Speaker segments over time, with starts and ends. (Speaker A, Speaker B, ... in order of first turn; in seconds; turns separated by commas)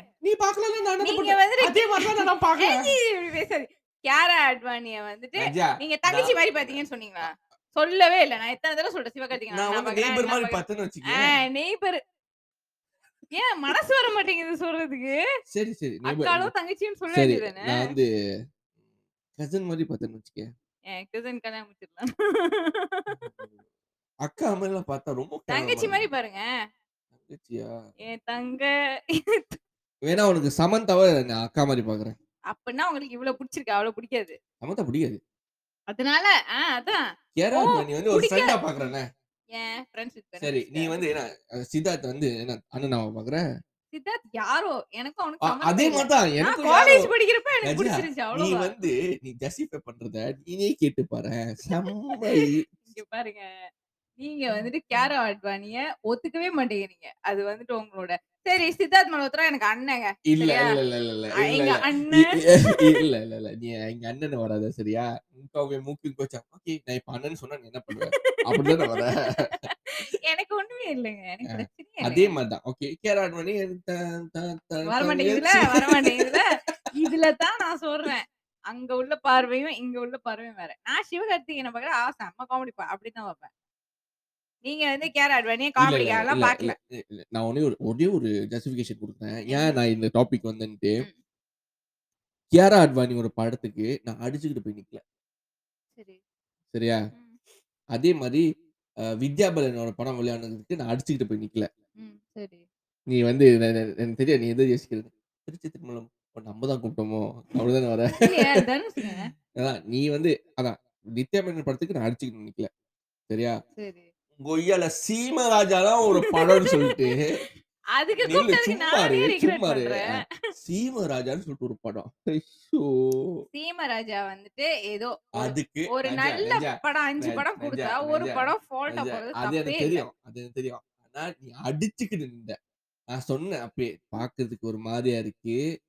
Speaker A: 0.2-2.9, Speaker B: 1.0-10.6, Speaker A: 5.4-6.8, Speaker A: 9.5-11.3, Speaker B: 11.1-12.0, Speaker B: 13.3-15.2, Speaker A: 15.5-16.5, Speaker B: 16.1-17.9, Speaker A: 17.1-18.1, Speaker A: 19.4-20.5, Speaker B: 20.9-23.1, Speaker A: 24.2-26.0, Speaker B: 25.5-26.4, Speaker A: 27.2-27.7, Speaker B: 28.0-29.6, Speaker A: 30.1-32.1, Speaker B: 32.5-34.4, Speaker A: 34.6-35.2, Speaker B: 35.9-37.0, Speaker A: 37.4-39.0, Speaker B: 37.5-38.6, Speaker B: 39.5-41.0, Speaker A: 40.4-43.4, Speaker B: 43.9-48.7, Speaker A: 45.4-47.1, Speaker A: 47.6-52.6, Speaker B: 51.8-53.5, Speaker B: 54.2-60.8, Speaker A: 60.3-69.5, Speaker B: 61.4-63.0, Speaker B: 67.9-72.3, Speaker A: 71.5-76.5, Speaker B: 74.9-83.5, Speaker B: 84.6-86.8, Speaker A: 85.8-91.0, Speaker B: 89.5-89.7, Speaker A: 92.5-95.0, Speaker A: 96.7-97.0, Speaker A: 97.9-98.4, Speaker A: 99.2-101.7, Speaker B: 102.0-102.6, Speaker A: 103.1-108.6, Speaker B: 108.2-109.2, Speaker A: 109.6-112.7, Speaker A: 113.3-113.5, Speaker B: 113.8-114.1, Speaker A: 114.4-117.2, Speaker B: 116.2-117.2, Speaker B: 117.9-120.3, Speaker A: 118.2-123.2, Speaker B: 123.5-130.0, Speaker A: 125.4-132.5, Speaker A: 133.1-135.6